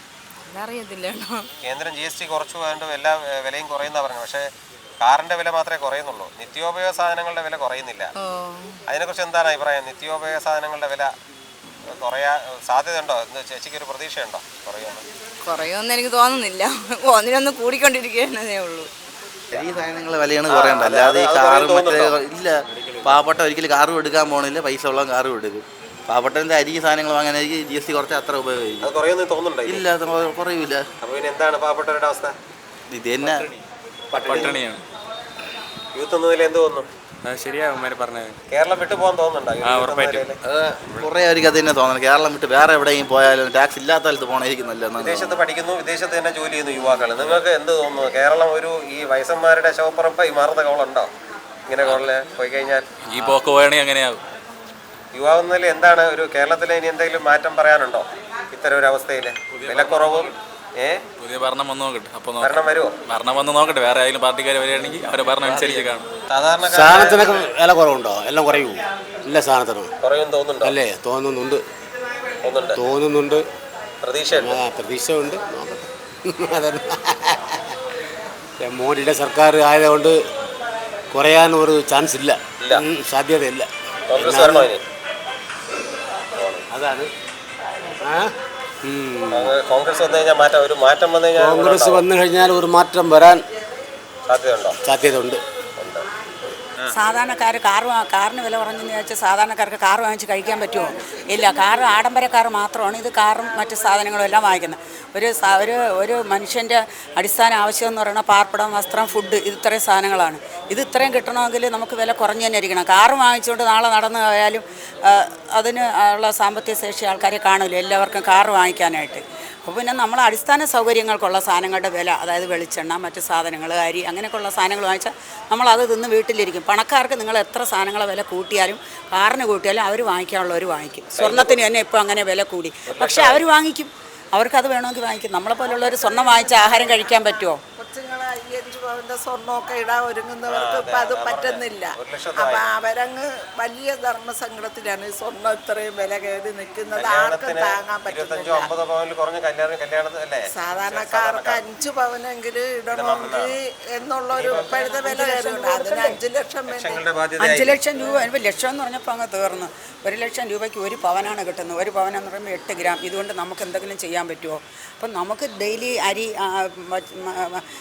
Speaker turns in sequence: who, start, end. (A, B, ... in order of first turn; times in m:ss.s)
0:00.4-0:01.4 A
0:01.6-0:04.4 B
0:05.0-0:08.1 B
0:08.2-0:08.7 A
0:08.9-0:11.1 B
0:11.9-0:15.0 B
0:15.4-0:18.9 A
0:19.5-0:28.9 C
0:20.4-0:22.2 B
0:22.7-0:23.1 B
0:28.8-0:29.9 B
0:29.6-0:30.8 C
0:31.0-0:32.3 B
0:32.9-0:33.5 C
0:34.1-0:34.6 B
0:34.1-0:34.8 D
0:35.9-0:36.9 B
0:38.5-0:40.4 B
0:39.6-0:40.3 D
0:40.4-0:45.4 C
0:45.0-0:51.1 B
0:51.7-0:53.3 B
0:53.1-0:54.2 D
0:55.1-1:01.0 B
0:59.5-1:00.3 D
1:01.2-1:06.0 D
1:02.4-1:02.9 B
1:06.3-1:07.5 B
1:06.7-1:09.9 E
1:10.0-1:10.8 B
1:10.6-1:11.6 E
1:12.4-1:12.8 B
1:12.8-1:13.4 E
1:14.0-1:14.7 B
1:14.3-1:15.9 E
1:16.4-1:17.3 E
1:18.6-1:20.1 E
1:21.1-1:24.7 E
1:24.1-1:24.8 B
1:26.4-1:26.6 B
1:26.7-1:27.1 E
1:28.0-1:28.3 E
1:28.9-1:29.5 E
1:29.3-1:32.0 B
1:31.4-1:33.4 E
1:34.3-1:34.8 B
1:34.8-1:35.4 E
1:35.8-1:36.0 B
1:36.9-2:17.6 F
2:11.1-2:11.6 B
2:12.9-2:13.4 B
2:17.8-2:28.7 G
2:20.4-2:22.7 B
2:26.9-2:31.6 B
2:30.5-2:37.0 G
2:32.9-2:33.6 B
2:34.3-2:35.2 B
2:34.6-2:36.2 F
2:36.6-2:37.8 B
2:37.4-2:47.6 F